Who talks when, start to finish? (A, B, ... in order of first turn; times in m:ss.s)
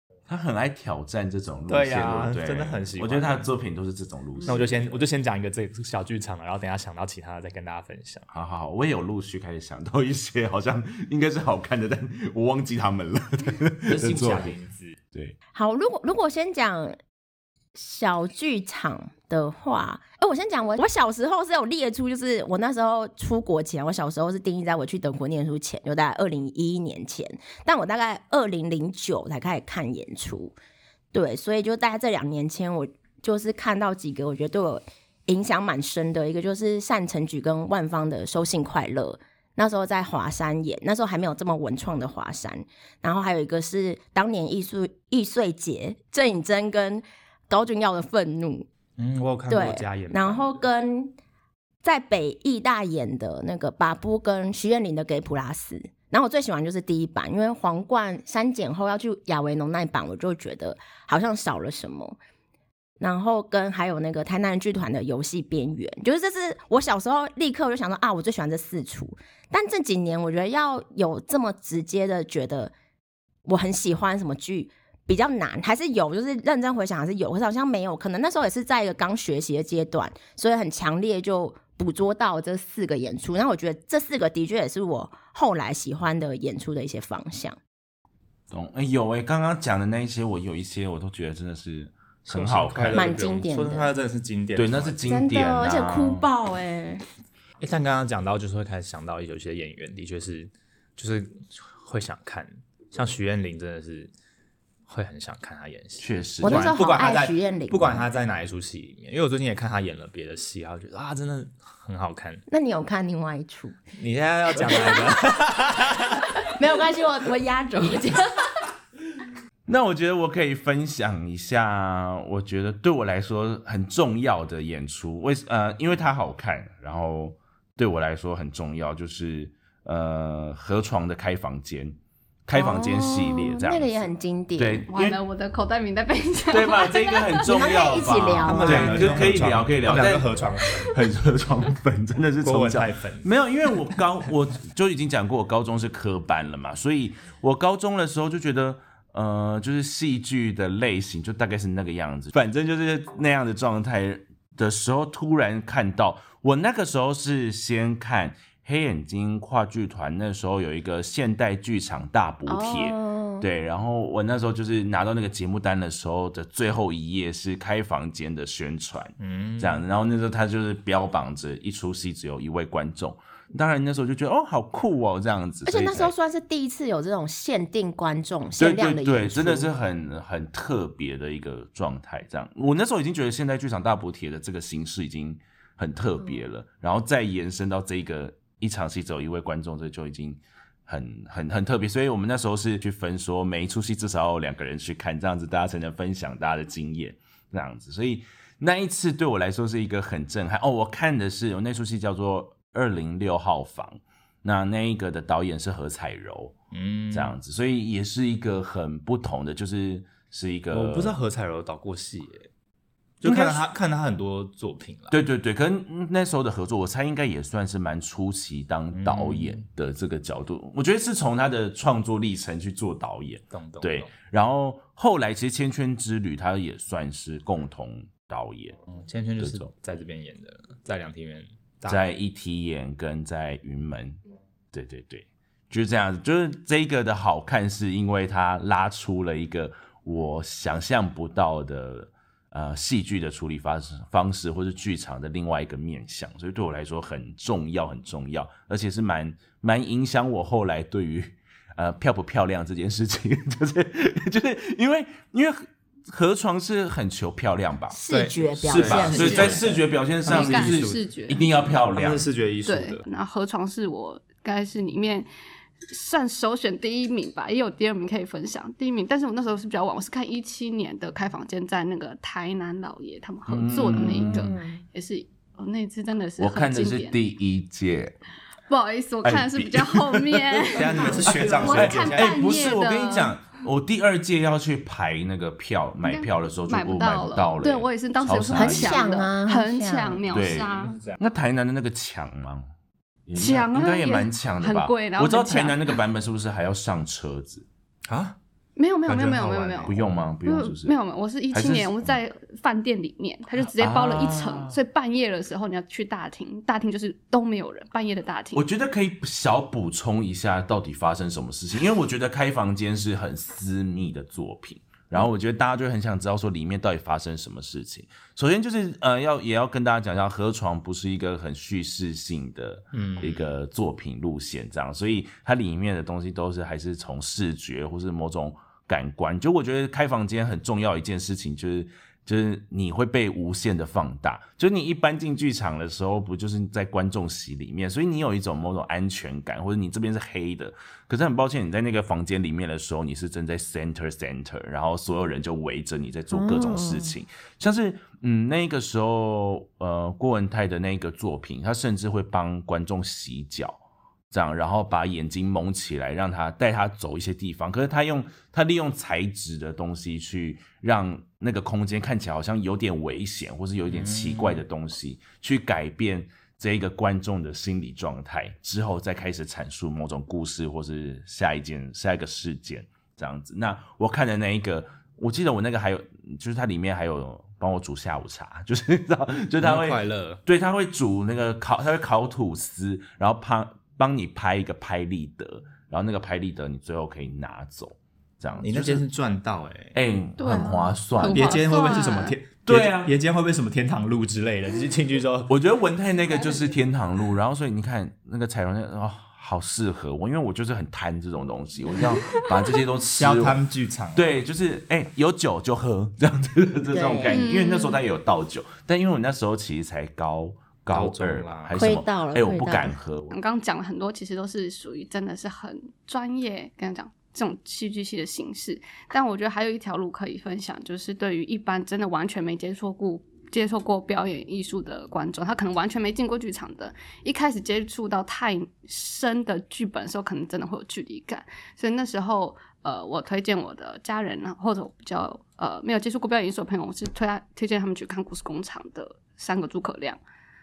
0:00.3-0:05.0 A
0:01.7-0:03.4 B
0:04.4-0:08.3 B
0:08.3-0:14.5 A
0:13.9-0:15.0 B
0:15.5-0:17.0 C
0:17.7-0:30.6 C
0:31.1-0:48.7 C
0:49.0-0:50.5 B
0:49.5-0:51.2 C
0:51.8-1:02.2 C
1:03.0-1:12.7 C
1:13.4-1:27.6 C
1:28.5-1:33.1 A
1:32.3-1:35.0 B
1:32.9-1:33.9 C
1:34.6-1:36.3 A
1:35.0-1:37.0 C
1:37.6-1:44.1 B
1:44.9-1:52.4 B
1:46.0-1:46.7 A
1:46.4-1:48.1 C
1:52.5-1:53.8 C
1:54.0-1:56.4 B
1:54.6-1:55.0 C
1:56.4-1:58.5 C
1:59.7-2:15.2 A
2:12.5-2:14.8 C
2:14.9-2:18.0 D
2:16.5-2:20.3 A
2:17.4-2:19.3 C
2:18.4-2:21.0 B
2:20.8-2:56.1 A
2:22.4-2:23.3 B
2:42.4-2:43.4 C
2:49.2-2:49.8 B
2:55.6-2:59.7 C
2:58.6-3:26.5 A
3:26.7-3:27.3 B
3:27.1-3:31.2 A
3:30.7-3:32.5 B
3:33.2-3:35.2 B
3:33.2-3:33.6 A
3:35.1-3:48.8 A
3:38.9-3:39.6 B
3:43.5-3:44.1 B
3:48.8-3:52.0 B
3:49.4-3:49.7 A
3:51.8-3:54.2 A
3:54.7-4:18.0 A
4:17.9-4:19.8 C
4:18.1-4:19.6 B
4:18.6-4:22.3 A
4:19.1-4:19.6 D
4:20.2-4:21.1 B
4:20.2-4:21.4 D
4:21.7-4:23.0 B
4:22.6-4:25.3 D
4:25.9-4:37.2 D
4:33.5-4:34.5 A
4:34.2-4:34.8 C
4:36.4-4:38.2 A
4:38.7-4:43.4 D
4:39.2-4:49.0 A
4:40.7-4:42.4 B
4:46.0-4:51.0 D
4:48.5-4:50.3 C
4:50.3-4:52.7 A
4:50.8-4:51.2 B
4:53.3-4:57.6 A
4:53.3-4:56.0 D
4:58.0-4:58.4 B
4:58.8-5:08.6 D
4:59.1-5:00.0 B
4:59.8-5:00.9 A
5:01.5-5:02.2 A
5:03.8-5:04.8 A
5:08.5-6:29.0 A
5:22.9-5:23.4 B
5:46.3-5:47.1 C
6:03.9-6:04.6 B
6:19.6-6:20.4 B
6:28.6-6:30.0 B
6:29.9-6:31.6 A
6:30.4-6:32.4 D
6:31.2-6:35.5 B
6:31.6-6:32.3 C
6:32.6-6:33.1 A
6:35.5-6:43.6 A
6:43.1-6:44.4 B
6:44.1-6:53.4 A
6:46.9-6:47.4 C
6:47.3-6:48.0 D
6:50.9-6:51.8 B
6:51.8-6:53.0 C
6:53.3-7:20.2 D